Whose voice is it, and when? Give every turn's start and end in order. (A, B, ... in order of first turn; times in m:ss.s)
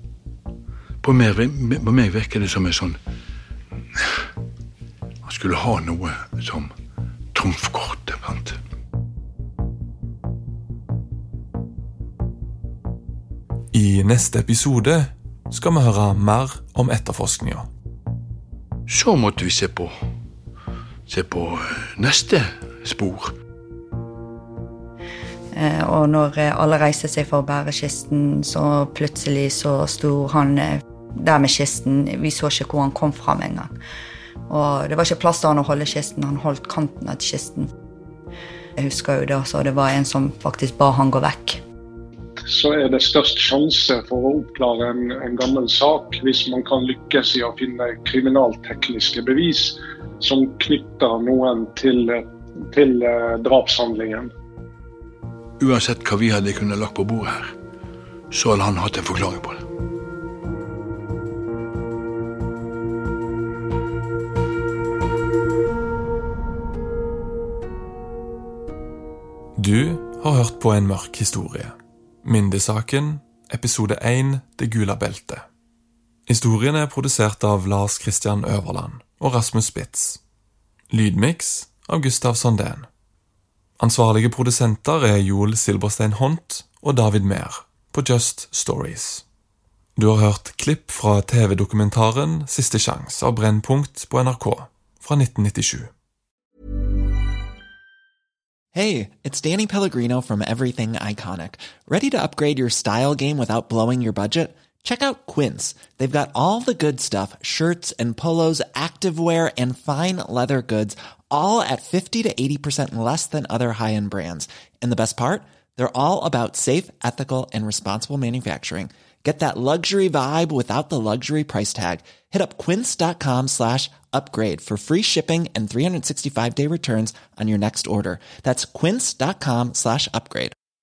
0:01.0-0:03.0 A
0:05.2-0:06.7 A
0:07.3-0:08.6 A
0:13.7-0:17.7 B
0:18.9-0:19.9 A
0:21.1-0:23.3 A
0:25.5-0:33.7 C
0:34.5-0:37.7 C
0:38.8-0:41.6 C
0:42.4-0:54.3 D
0:55.6-0:57.5 A
0:58.3-0:59.6 A
1:09.6-1:15.4 B
1:16.3-1:20.2 B
1:20.9-1:22.9 B
1:23.8-1:29.2 B
1:30.0-1:35.9 B
1:38.7-2:10.5 E